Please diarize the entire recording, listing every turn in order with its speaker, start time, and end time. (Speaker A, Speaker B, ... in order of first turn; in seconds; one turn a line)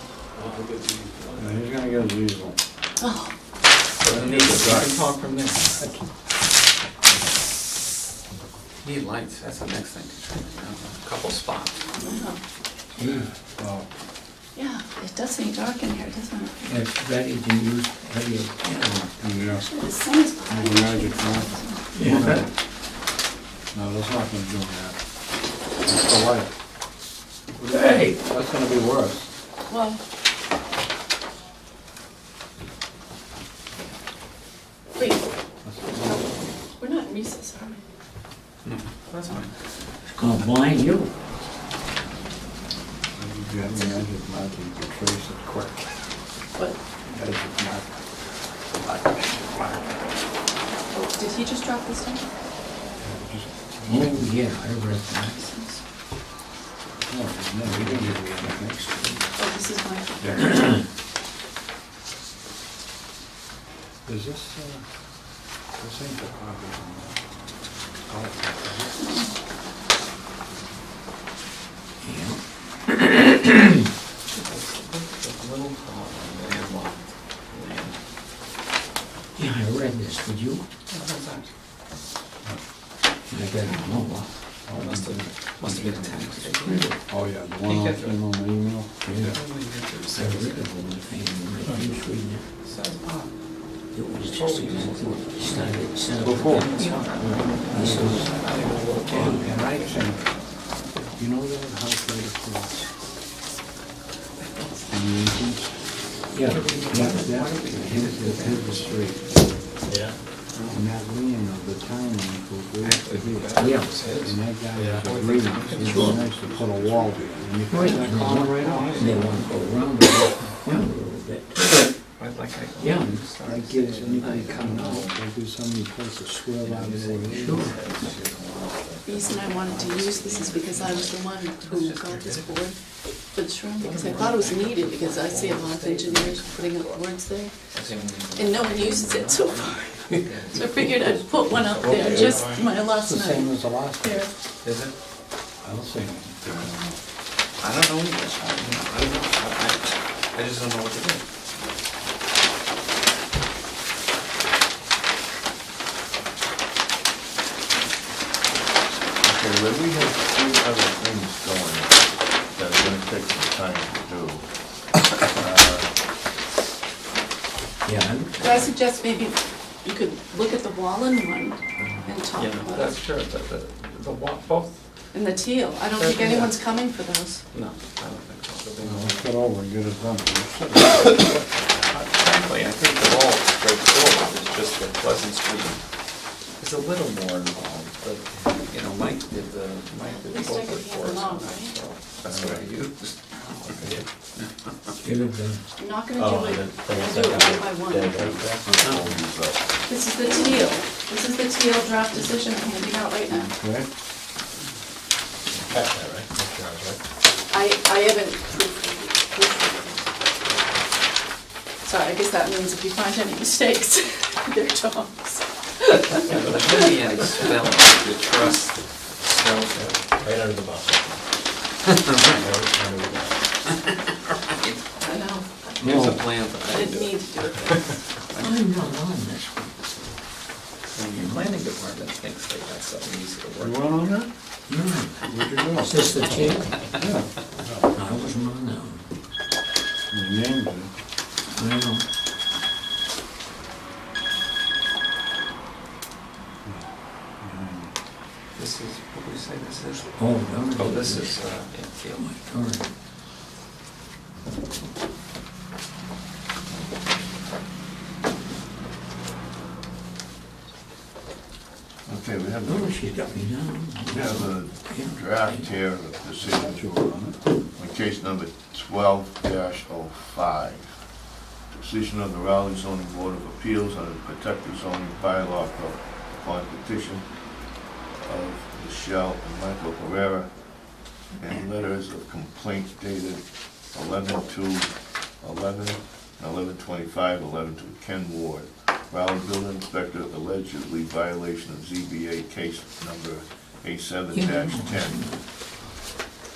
Speaker A: 0.3-1.5
Speaker B: 1.3-2.6
Speaker C: 3.0-3.3
Speaker D: 4.0-5.7
Speaker B: 4.0-5.1
Speaker B: 5.8-6.0
Speaker D: 8.8-11.9
Speaker C: 11.9-12.4
Speaker E: 12.9-13.3
Speaker B: 13.0-13.9
Speaker C: 14.5-16.7
Speaker E: 16.6-19.1
Speaker B: 19.2-19.7
Speaker C: 19.4-21.9
Speaker B: 20.5-22.5
Speaker E: 21.9-22.5
Speaker B: 23.7-25.0
Speaker B: 25.8-26.5
Speaker B: 27.5-29.3
Speaker E: 27.7-28.2
Speaker C: 29.7-30.0
Speaker C: 35.0-35.2
Speaker B: 35.6-36.3
Speaker C: 36.0-36.2
Speaker C: 36.8-37.8
Speaker D: 38.6-39.5
Speaker E: 40.1-41.1
Speaker B: 43.1-45.9
Speaker B: 47.0-48.0
Speaker B: 48.7-50.0
Speaker C: 50.9-52.2
Speaker B: 53.0-54.3
Speaker E: 53.8-55.4
Speaker C: 55.2-55.8
Speaker B: 57.1-59.2
Speaker E: 57.6-59.3
Speaker C: 59.4-60.6
Speaker E: 60.4-60.8
Speaker B: 64.0-64.8
Speaker B: 65.8-67.1
Speaker B: 68.0-69.1
Speaker C: 69.0-69.3
Speaker E: 72.0-73.7
Speaker D: 74.3-78.0
Speaker E: 79.3-80.6
Speaker D: 80.9-81.5
Speaker E: 83.2-84.3
Speaker B: 84.7-86.1
Speaker D: 84.7-86.9
Speaker E: 85.8-87.0
Speaker B: 87.1-89.3
Speaker D: 87.6-88.2
Speaker E: 89.0-89.3
Speaker D: 89.2-90.7
Speaker E: 90.1-92.4
Speaker D: 92.6-93.3
Speaker E: 93.9-98.3
Speaker D: 94.3-100.0
Speaker B: 96.2-96.8
Speaker B: 97.7-98.3
Speaker B: 99.0-100.3
Speaker E: 99.1-99.5
Speaker B: 101.2-102.9
Speaker D: 104.4-104.8
Speaker B: 104.9-105.8
Speaker E: 106.3-107.5
Speaker D: 106.4-109.0
Speaker B: 107.0-109.4
Speaker A: 109.9-110.2
Speaker D: 110.5-110.8
Speaker B: 110.6-119.3
Speaker D: 112.8-117.0
Speaker E: 113.5-113.9
Speaker A: 114.7-115.0
Speaker A: 115.9-116.2
Speaker E: 117.7-121.8
Speaker D: 117.8-119.5
Speaker D: 122.1-125.2
Speaker E: 122.8-123.2
Speaker B: 123.4-127.7
Speaker D: 126.6-132.6
Speaker E: 127.3-127.8
Speaker C: 129.0-132.8
Speaker C: 133.3-137.6
Speaker D: 133.8-137.0
Speaker D: 137.7-142.7
Speaker C: 138.3-144.3
Speaker B: 141.8-144.3
Speaker D: 144.6-144.9
Speaker B: 145.6-146.9
Speaker F: 146.4-146.8
Speaker D: 147.6-151.2
Speaker F: 159.2-164.5
Speaker F: 165.3-165.9
Speaker E: 167.8-168.3
Speaker C: 168.4-173.0
Speaker D: 168.4-168.7
Speaker D: 172.3-174.8
Speaker C: 175.1-177.4
Speaker D: 175.9-176.6
Speaker D: 177.5-179.3
Speaker B: 178.8-181.7
Speaker D: 181.9-185.8
Speaker D: 186.6-194.0
Speaker C: 190.0-191.7
Speaker F: 192.2-192.6
Speaker E: 195.0-195.6
Speaker C: 195.8-198.1
Speaker A: 196.1-198.8
Speaker F: 198.1-199.6
Speaker C: 199.9-203.5
Speaker B: 203.3-203.9
Speaker A: 205.5-207.0
Speaker C: 207.5-210.1
Speaker C: 211.8-216.7
Speaker D: 216.2-220.0
Speaker A: 219.7-221.2
Speaker D: 222.0-222.5
Speaker A: 222.3-223.5
Speaker C: 225.0-225.5
Speaker D: 225.8-228.4
Speaker B: 225.8-226.2
Speaker C: 226.7-227.9
Speaker E: 228.3-229.7
Speaker D: 230.9-233.8
Speaker E: 231.1-231.5
Speaker B: 233.6-234.3
Speaker E: 234.7-237.0
Speaker B: 235.2-236.2
Speaker B: 236.9-237.8
Speaker E: 237.9-239.1
Speaker B: 240.1-240.9
Speaker E: 241.5-242.0
Speaker B: 247.4-247.9
Speaker D: 248.5-250.1
Speaker E: 250.2-251.4
Speaker D: 250.7-252.3
Speaker E: 252.1-252.9
Speaker F: 262.1-263.2
Speaker E: 262.6-265.7
Speaker F: 264.1-266.9
Speaker B: 266.4-267.4
Speaker F: 267.7-270.9
Speaker F: 271.7-277.3
Speaker F: 278.2-280.5
Speaker F: 281.4-284.9
Speaker F: 285.4-295.2
Speaker E: 294.3-295.4